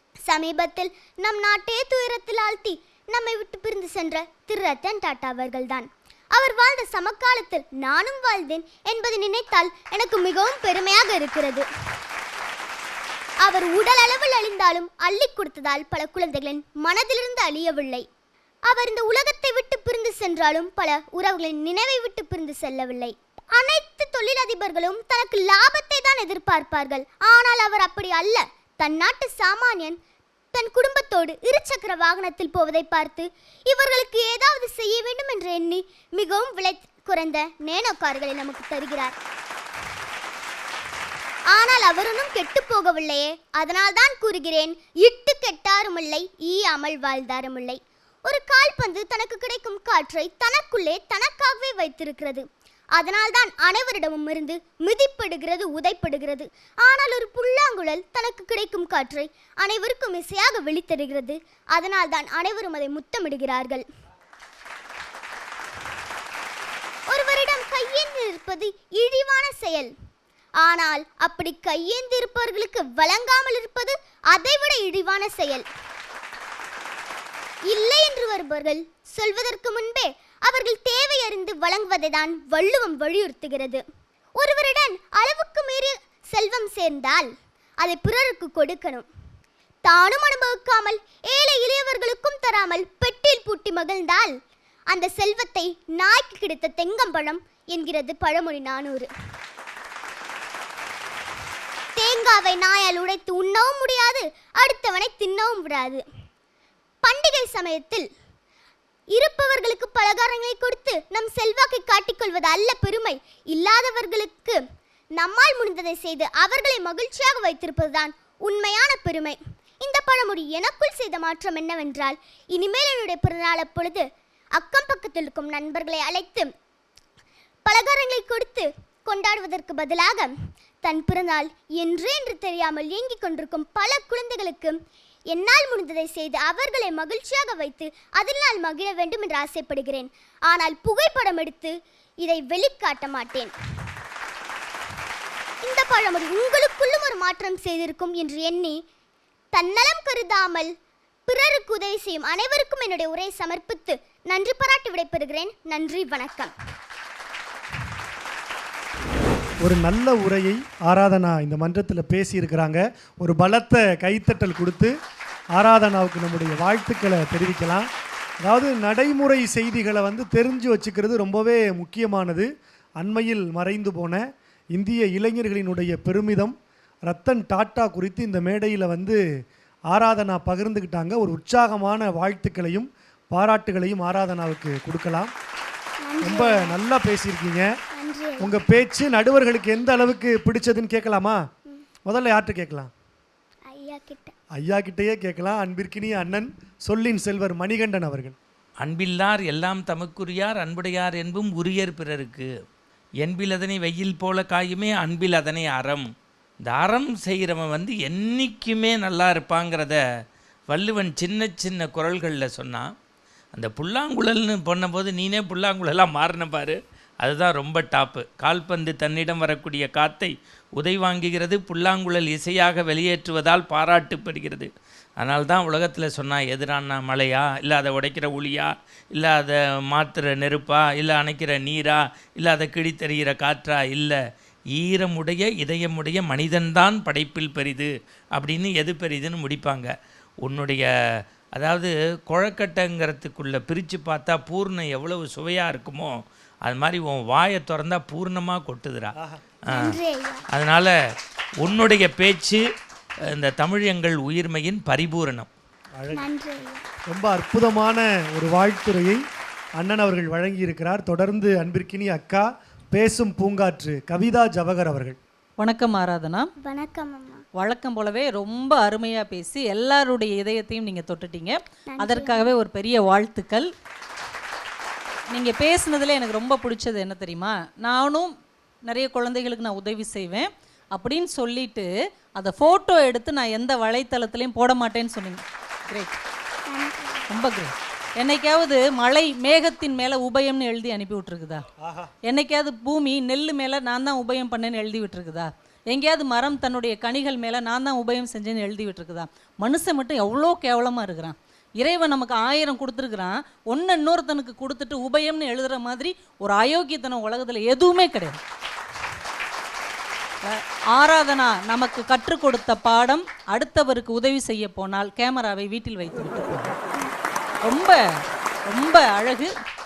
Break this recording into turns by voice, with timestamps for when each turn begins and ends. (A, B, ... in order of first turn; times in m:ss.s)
0:00.3-0:11.7 A
0:13.4-0:18.1 A
0:18.7-0:30.0 A
0:30.5-0:39.2 A
0:41.5-1:03.8 A
1:07.1-1:09.9 A
1:10.6-1:15.7 A
1:17.7-1:23.8 A
1:24.4-1:29.1 A
1:29.8-1:34.4 A
1:34.9-1:39.1 A
1:42.0-1:46.0 A
1:47.0-1:48.1 A
1:49.1-1:54.6 A
1:55.2-2:06.5 A
2:07.7-2:14.8 A
2:15.3-2:23.5 A
2:25.6-2:28.8 A
2:29.5-2:30.7 A
2:31.3-2:36.5 A
2:39.6-2:44.9 B
2:45.6-2:47.9 B
2:48.4-2:52.5 B
2:53.0-2:54.2 B
2:54.7-2:56.5 B
2:57.1-2:59.2 B
2:59.9-3:05.3 B
3:06.0-3:06.8 A
3:06.2-3:07.7 B
3:08.0-3:08.6 A
3:08.4-3:11.4 B
3:12.1-3:12.9 B
3:13.7-3:14.3 A
3:14.6-3:18.4 B
3:18.8-3:22.5 C
3:23.2-3:26.1 C
3:26.6-3:30.0 C
3:30.7-3:32.9 C
3:33.6-3:54.2 C
3:54.8-3:59.9 C
4:00.4-4:00.9 C
4:01.6-4:09.1 C
4:09.7-4:10.4 A
4:09.7-4:10.0 C
4:10.5-4:10.9 C
4:11.6-4:12.6 C
4:13.4-4:15.5 C
4:16.0-4:16.3 B
4:16.1-4:16.8 A
4:17.1-4:19.2 B
4:19.8-4:25.2 B
4:25.6-4:26.5 D
4:26.6-4:27.4 A
4:27.6-4:33.7 D
4:31.9-4:32.6 A
4:35.3-4:38.3 D
4:38.9-4:46.2 D
4:46.7-4:47.3 A
4:47.3-4:51.6 D
4:51.8-4:52.1 B
4:52.2-5:08.4 D
5:10.4-5:16.7 D
5:17.7-5:18.0 D
5:18.7-5:19.5 D